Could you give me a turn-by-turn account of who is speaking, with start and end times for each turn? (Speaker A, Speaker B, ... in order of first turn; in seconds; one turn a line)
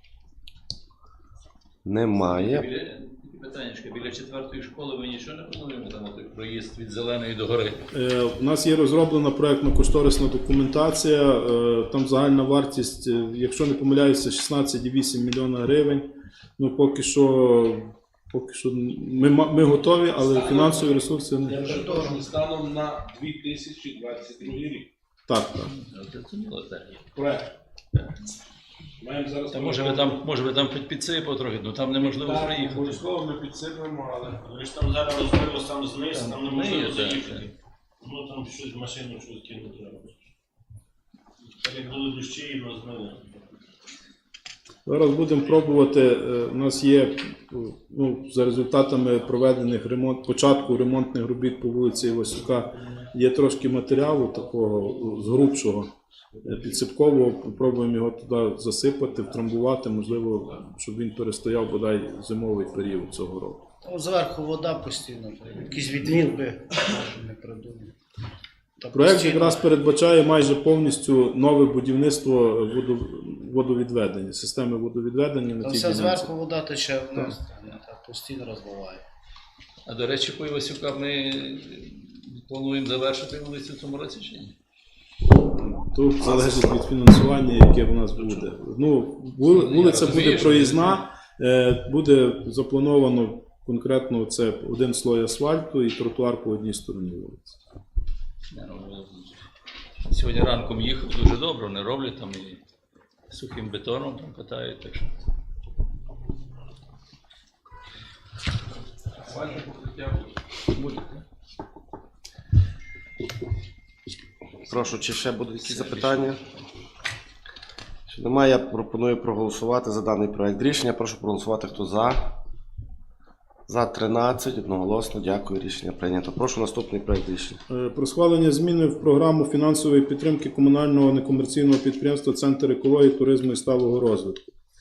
Speaker A: 1.9-2.6
Speaker B: 2.1-7.8
Speaker C: 7.9-21.7
Speaker D: 20.3-24.9
Speaker E: 21.6-22.2
Speaker C: 25.3-25.7
Speaker B: 25.8-27.0
Speaker D: 27.1-27.5
Speaker D: 29.0-30.2
Speaker B: 29.5-33.0
Speaker D: 32.0-40.2
Speaker B: 36.4-37.5
Speaker D: 41.5-43.4
Speaker C: 44.9-63.7
Speaker E: 63.8-68.0
Speaker E: 68.8-69.7
Speaker C: 68.9-76.3
Speaker E: 75.6-79.0
Speaker B: 79.9-84.6
Speaker C: 85.5-97.6
Speaker B: 89.5-91.0
Speaker B: 98.5-99.4
Speaker B: 100.1-102.6
Speaker B: 103.3-105.2
Speaker D: 109.3-110.3
Speaker B: 110.8-111.2
Speaker A: 114.7-116.4
Speaker B: 115.6-116.4
Speaker A: 118.1-122.3
Speaker A: 123.7-127.6
Speaker C: 127.7-134.4